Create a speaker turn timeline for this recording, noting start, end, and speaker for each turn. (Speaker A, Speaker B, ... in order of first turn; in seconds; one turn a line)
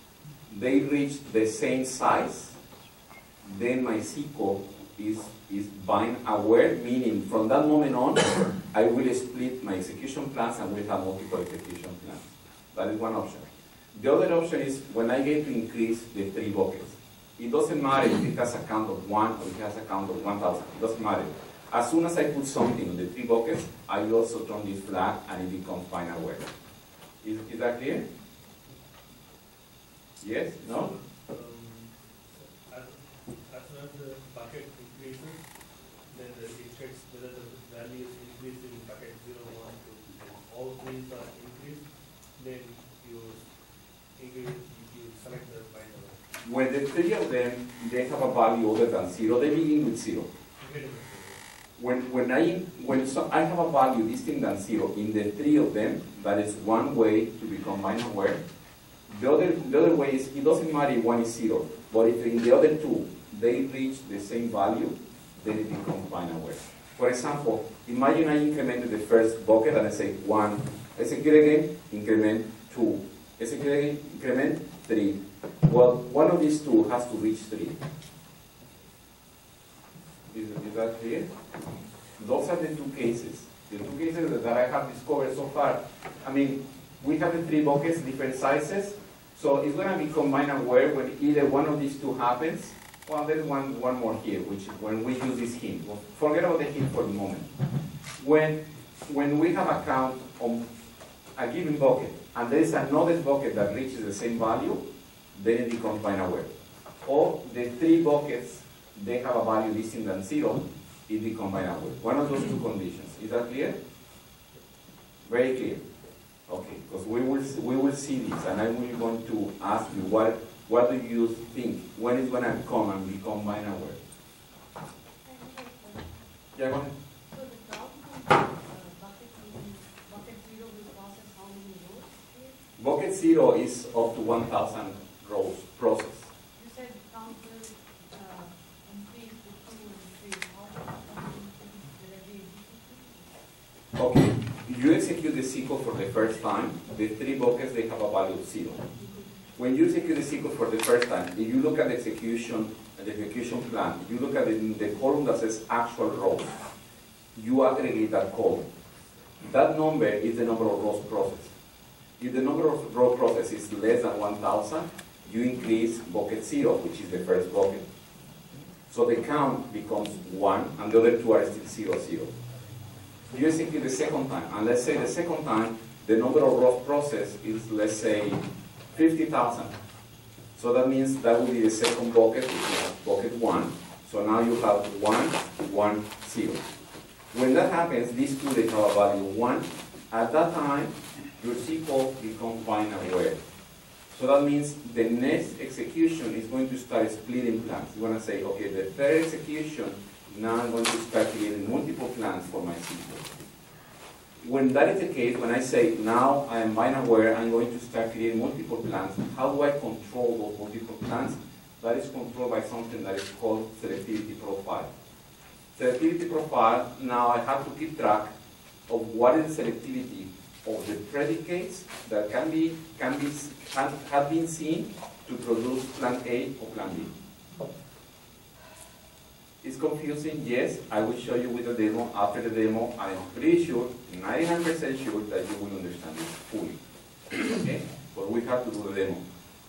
Speaker A: 0.5-2.6
Speaker A: 3.4-26.5
Speaker A: 27.2-28.1
Speaker A: 30.2-30.9
Speaker B: 30.6-35.4
Speaker B: 36.1-41.9
Speaker B: 42.4-43.4
Speaker B: 44.2-46.2
Speaker A: 46.5-50.3
Speaker B: 50.6-51.4
Speaker A: 51.8-58.4
Speaker A: 59.1-77.8
Speaker A: 80.3-81.3
Speaker A: 82.2-97.5
Speaker A: 98.2-100.7
Speaker A: 101.4-113.8
Speaker A: 115.3-115.8
Speaker A: 116.5-124.0
Speaker C: 125.2-126.2
Speaker A: 126.6-126.9
Speaker C: 127.3-132.6
Speaker A: 132.8-136.3
Speaker C: 136.6-143.4
Speaker A: 144.0-148.8
Speaker C: 149.0-149.4
Speaker A: 149.6-156.6
Speaker A: 157.3-158.7
Speaker A: 159.4-161.5
Speaker A: 162.2-167.8
Speaker A: 168.9-172.3
Speaker A: 173.3-179.8
Speaker A: 180.6-186.6
Speaker A: 187.3-193.4
Speaker A: 194.1-203.3
Speaker A: 204.4-214.9
Speaker A: 215.8-218.3
Speaker A: 218.9-227.1
Speaker A: 229.6-236.8
Speaker A: 237.4-239.2